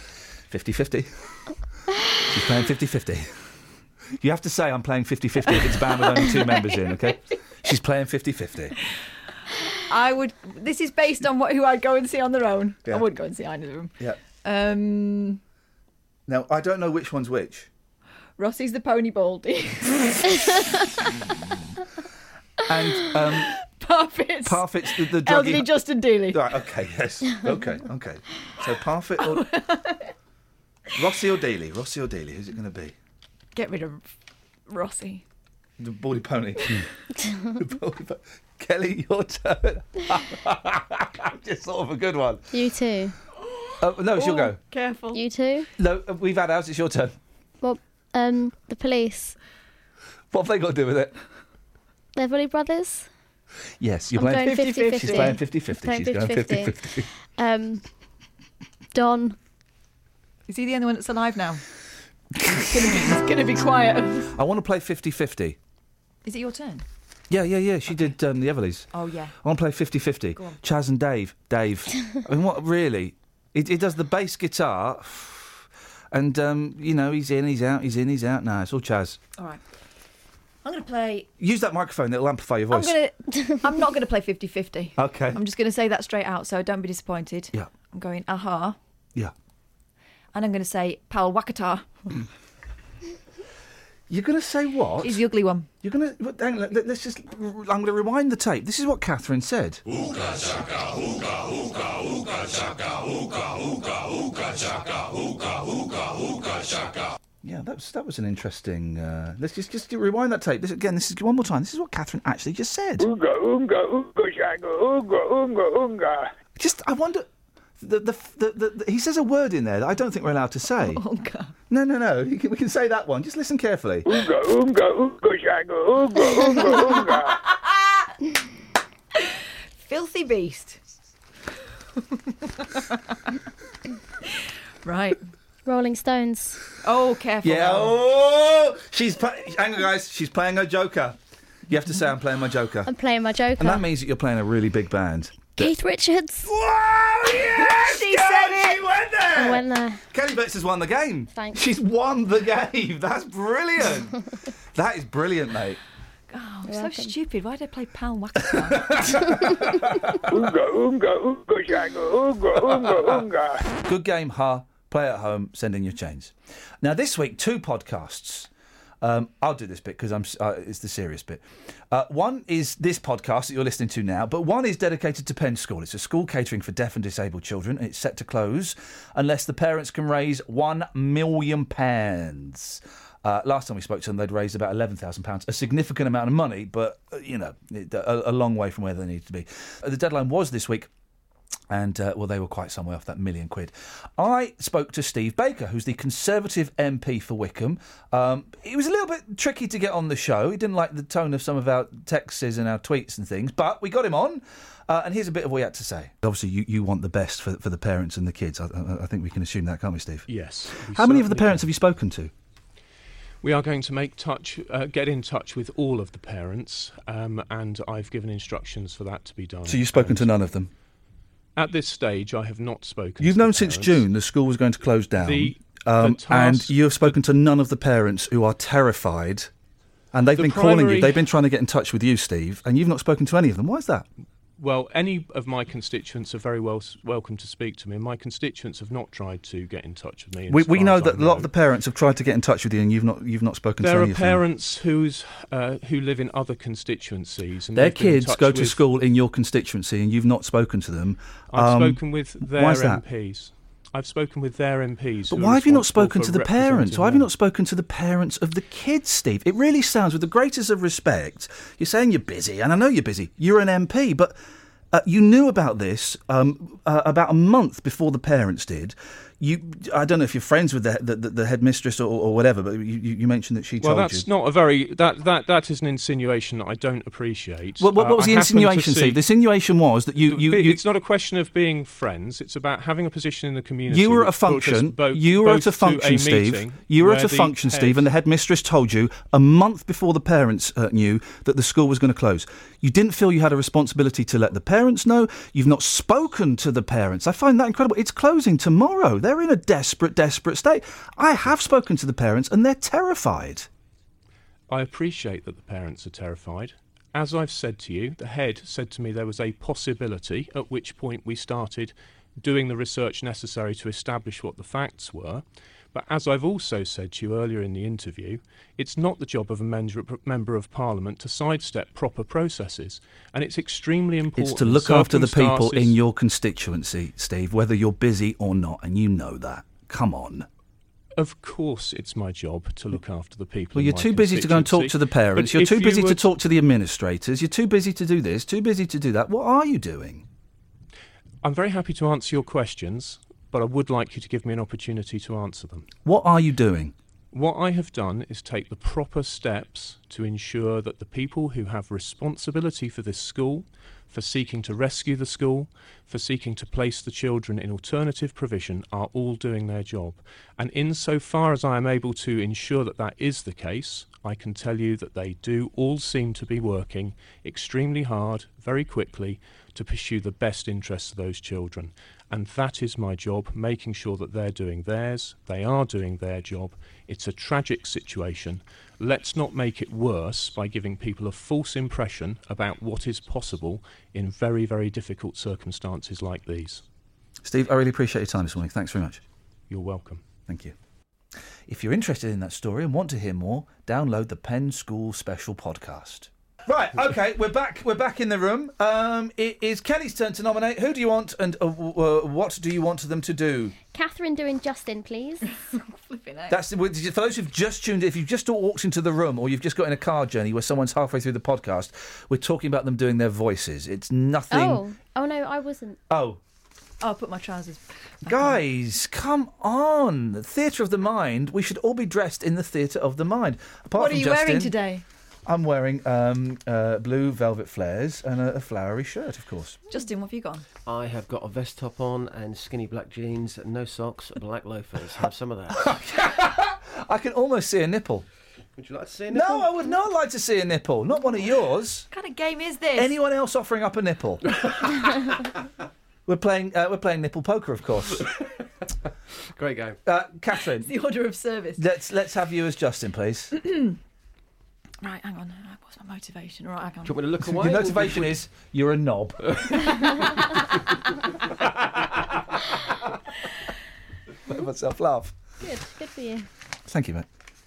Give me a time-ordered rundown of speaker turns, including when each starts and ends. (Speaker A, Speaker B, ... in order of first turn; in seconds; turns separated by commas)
Speaker A: 0.5-1.1, Speaker A: 2.3-3.3, Speaker A: 4.2-8.8, Speaker B: 9.9-15.4, Speaker A: 16.3-17.7, Speaker B: 18.4-20.6, Speaker A: 22.7-23.5, Speaker B: 23.5-26.5, Speaker A: 24.4-25.7, Speaker A: 26.3-29.5, Speaker B: 29.2-30.1, Speaker A: 30.9-33.0, Speaker B: 33.5-34.1, Speaker B: 34.7-35.2, Speaker A: 35.8-36.9, Speaker A: 37.5-42.5, Speaker C: 42.5-43.1, Speaker A: 43.8-44.6, Speaker B: 44.1-45.2, Speaker C: 45.1-45.7, Speaker A: 45.8-47.1, Speaker C: 47.6-49.4, Speaker A: 50.3-51.1, Speaker C: 52.1-53.1, Speaker A: 53.8-57.1, Speaker C: 54.1-57.8, Speaker B: 54.4-55.4, Speaker C: 58.9-59.4, Speaker B: 60.5-61.6, Speaker B: 62.4-64.3, Speaker A: 64.3-65.6, Speaker B: 66.2-66.8, Speaker A: 67.3-68.9, Speaker B: 68.9-69.3, Speaker A: 69.4-79.2, Speaker B: 79.4-79.6, Speaker B: 80.6-81.3, Speaker A: 81.4-83.0, Speaker B: 82.7-88.8, Speaker A: 85.0-85.4, Speaker B: 90.3-91.9, Speaker A: 94.1-95.2, Speaker B: 95.0-95.7, Speaker A: 95.8-100.7, Speaker A: 107.4-113.1, Speaker D: 113.0-116.3, Speaker A: 116.6-117.3, Speaker A: 117.8-121.0, Speaker B: 120.8-121.5, Speaker A: 121.7-124.1, Speaker D: 124.1-127.3, Speaker B: 127.5-127.9, Speaker B: 129.2-130.8, Speaker B: 132.0-133.3, Speaker B: 134.2-135.2, Speaker C: 135.7-136.6, Speaker B: 136.8-138.0, Speaker A: 137.4-141.2, Speaker A: 141.7-142.9, Speaker C: 142.8-143.9, Speaker A: 143.6-145.7, Speaker C: 145.6-146.5, Speaker A: 146.4-154.2, Speaker B: 147.3-148.8, Speaker C: 149.3-150.0, Speaker C: 151.3-151.6, Speaker A: 154.7-155.8, Speaker B: 156.3-159.3, Speaker C: 156.7-157.1, Speaker A: 158.8-160.3, Speaker D: 160.3-163.6, Speaker A: 162.7-163.1, Speaker A: 163.8-168.5, Speaker A: 169.0-190.9, Speaker A: 191.7-210.3, Speaker E: 210.3-211.7, Speaker A: 210.9-212.3, Speaker E: 213.4-220.3, Speaker A: 219.7-220.7, Speaker E: 221.6-224.1, Speaker A: 223.2-229.5, Speaker E: 225.2-227.2, Speaker A: 230.1-234.1, Speaker E: 230.4-231.2, Speaker E: 234.6-241.5, Speaker A: 240.5-244.4, Speaker E: 243.8-248.8, Speaker A: 247.8-253.0, Speaker E: 251.5-257.3, Speaker A: 255.3-264.4, Speaker A: 264.9-274.3, Speaker E: 273.8-279.2, Speaker A: 277.8-280.8, Speaker E: 280.2-288.1, Speaker A: 283.9-303.7, Speaker E: 304.7-315.4, Speaker E: 315.9-326.0, Speaker A: 324.4-330.5, Speaker E: 331.2-336.3, Speaker A: 333.8-340.3, Speaker E: 341.4-345.9, Speaker A: 346.1-346.9, Speaker E: 347.3-386.8, Speaker A: 387.4-389.2, Speaker E: 389.7-390.2, Speaker A: 390.5-390.8, Speaker A: 391.7-403.8, Speaker C: 403.8-405.5, Speaker B: 405.6-406.6, Speaker A: 406.5-414.8, Speaker C: 414.5-416.0, Speaker A: 416.1-416.4, Speaker B: 417.0-418.6, Speaker A: 418.3-424.8, Speaker B: 424.0-425.0, Speaker A: 425.5-429.8, Speaker B: 429.9-430.7, Speaker F: 430.9-435.9, Speaker A: 435.7-438.3, Speaker F: 438.8-439.9, Speaker A: 439.3-442.1, Speaker B: 442.1-443.1, Speaker A: 442.9-444.6, Speaker A: 446.3-448.3, Speaker F: 449.5-450.0, Speaker A: 450.1-450.9, Speaker B: 450.8-451.8, Speaker A: 451.8-453.6, Speaker B: 453.6-454.0, Speaker B: 455.0-457.2, Speaker F: 457.1-458.4, Speaker A: 457.4-460.0, Speaker F: 459.5-460.2, Speaker A: 464.5-465.3, Speaker C: 465.6-466.5, Speaker A: 466.9-467.3